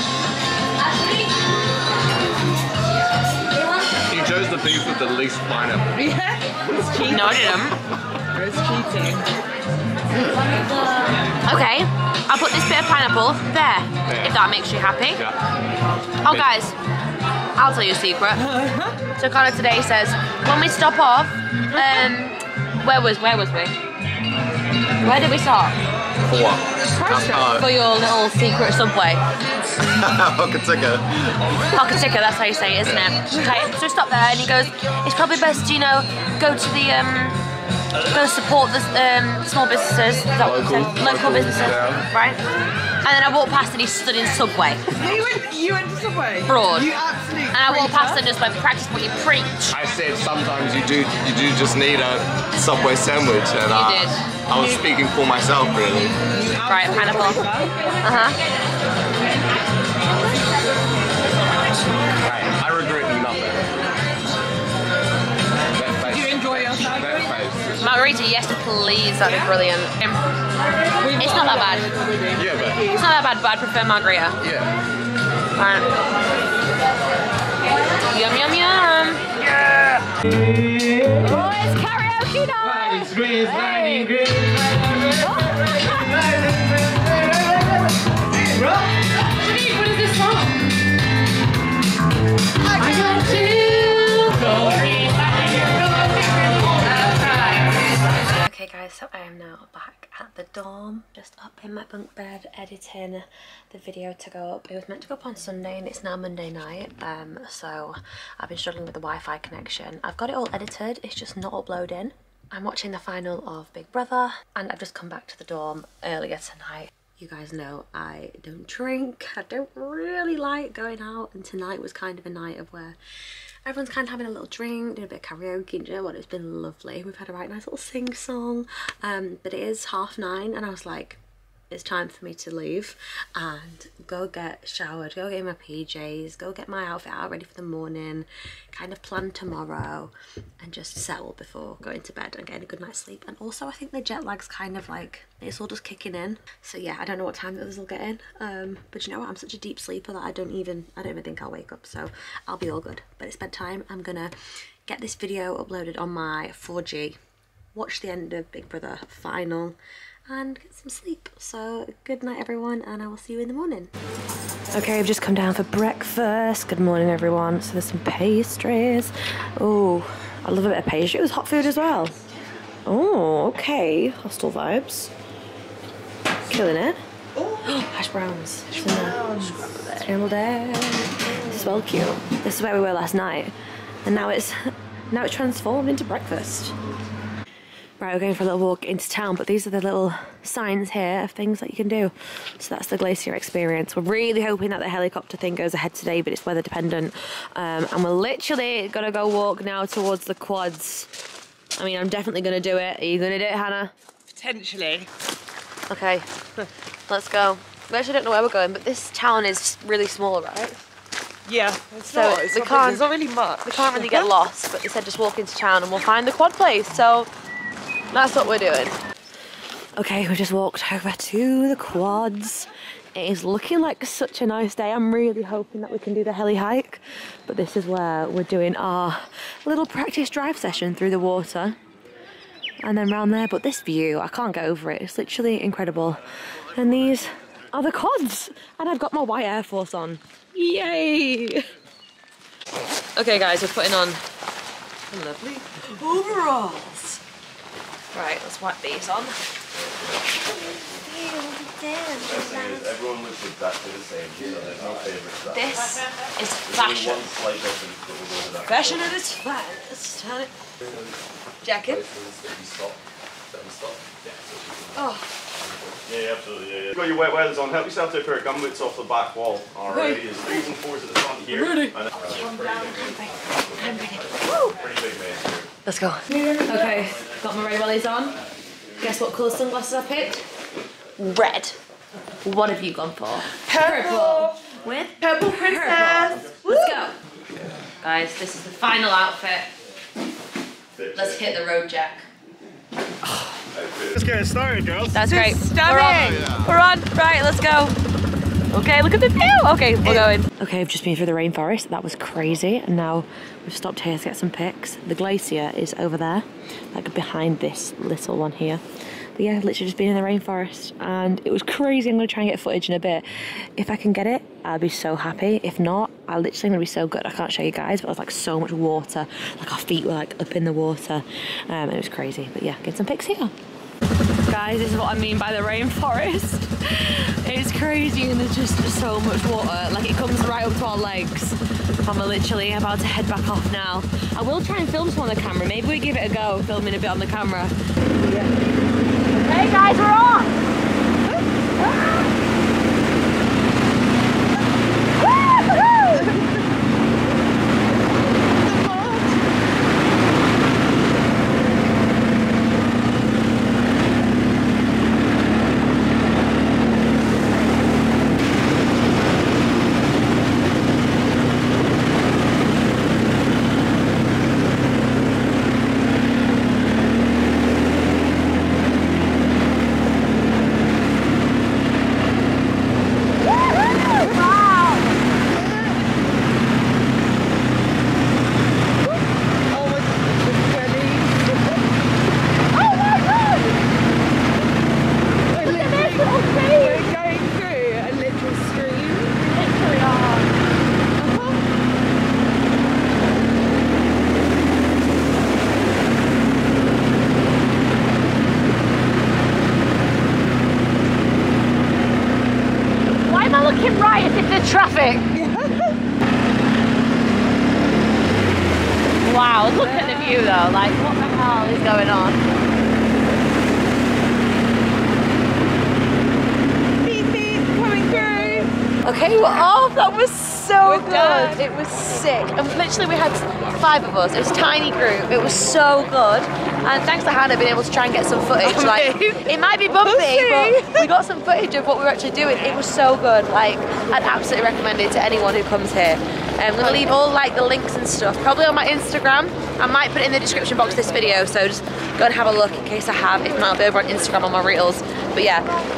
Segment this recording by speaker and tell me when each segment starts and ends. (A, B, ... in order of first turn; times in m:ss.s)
0:03.5-0:03.9 A
0:04.0-0:06.0 B
0:06.0-0:07.6 C
0:07.0-0:07.8 A
0:08.3-0:09.3 C
0:11.4-0:15.2 A
0:14.0-0:14.4 B
0:16.2-0:16.8 A
0:16.2-0:16.5 B
0:17.6-0:18.4 A
0:19.2-0:23.8 A
0:25.0-0:25.8 A
0:26.2-0:27.7 B
0:26.9-0:29.2 A
0:30.0-0:31.1 B
0:31.7-0:37.4 A
0:38.1-0:42.4 A
0:40.4-0:42.1 B
0:43.0-0:44.8 A
0:44.9-0:48.2 C
0:46.5-0:46.9 A
0:47.5-0:49.8 A
0:49.7-0:56.2 B
0:53.7-0:54.2 A
0:56.3-0:57.9 C
0:56.6-0:57.5 A
0:58.0-0:58.4 A
1:02.2-1:04.0 B
1:05.7-1:07.7 B
1:06.1-1:07.1 C
1:07.8-1:10.2 A
1:11.0-1:13.0 C
1:11.2-1:11.9 A
1:12.4-1:12.8 B
1:12.9-1:14.4 A
1:14.4-1:14.7 B
1:15.6-1:15.9 A
1:18.1-1:19.3 A
1:21.2-1:24.3 A
1:25.2-1:26.2 A
1:29.7-1:30.3 A
1:32.8-1:34.4 A
1:38.3-2:03.0 A
2:03.6-2:11.2 A
2:11.7-2:34.3 A
2:34.9-2:37.2 A
2:37.7-2:39.8 A
2:40.3-2:43.9 A
2:44.7-2:52.2 A
2:52.9-2:55.1 A
2:56.5-2:57.0 A
2:57.4-2:57.6 C
2:57.6-3:03.5 A
2:58.7-3:00.0 C
3:01.3-3:01.7 C
3:04.0-3:04.6 A
3:05.1-3:06.7 A
3:08.0-3:21.1 A
3:21.8-3:23.9 A
3:24.3-3:25.1 C
3:25.9-3:26.3 A
3:27.1-3:30.8 A
3:31.4-3:34.3 C
3:32.1-3:33.1 A
3:33.6-3:37.3 A
3:38.1-3:39.0 A
3:40.0-3:51.8 A
3:52.8-4:01.6 A
4:03.2-4:04.2 A
4:05.1-4:07.2 A
4:08.1-4:09.4 A
4:09.8-4:10.2 D
4:11.0-4:13.0 A
4:12.2-4:16.0 D
4:15.5-4:17.3 A
4:16.6-4:19.1 D
4:18.6-4:20.5 A
4:20.8-4:21.1 D
4:21.6-4:22.0 A
4:21.8-4:25.1 D
4:24.9-4:25.3 A
4:25.6-4:35.7 D
4:29.9-4:30.2 A
4:31.5-4:34.7 A
4:35.8-4:38.4 A
4:39.0-4:40.4 A
4:41.2-4:41.8 A
4:42.4-4:47.2 A
4:43.7-4:44.6 C
4:45.2-4:47.0 C
4:48.0-4:49.7 A
4:51.0-4:51.5 D
4:51.1-4:52.3 A
4:53.7-4:54.3 D
4:54.1-4:55.2 B
4:55.1-4:58.0 A
4:55.2-4:56.5 C
4:58.7-5:08.8 A
5:09.4-5:23.5 A
5:24.5-5:37.7 A
5:39.4-5:40.5 A
5:48.6-5:49.3 C
6:14.6-6:14.9 A
6:19.7-6:21.4 C
6:25.5-6:29.4 C
6:25.6-6:26.9 A
6:43.2-6:45.3 A
6:45.4-6:45.9 C
6:49.2-6:52.4 A
6:57.0-6:58.7 C
6:59.0-7:25.7 A
7:00.8-7:01.7 C
7:08.6-7:11.0 C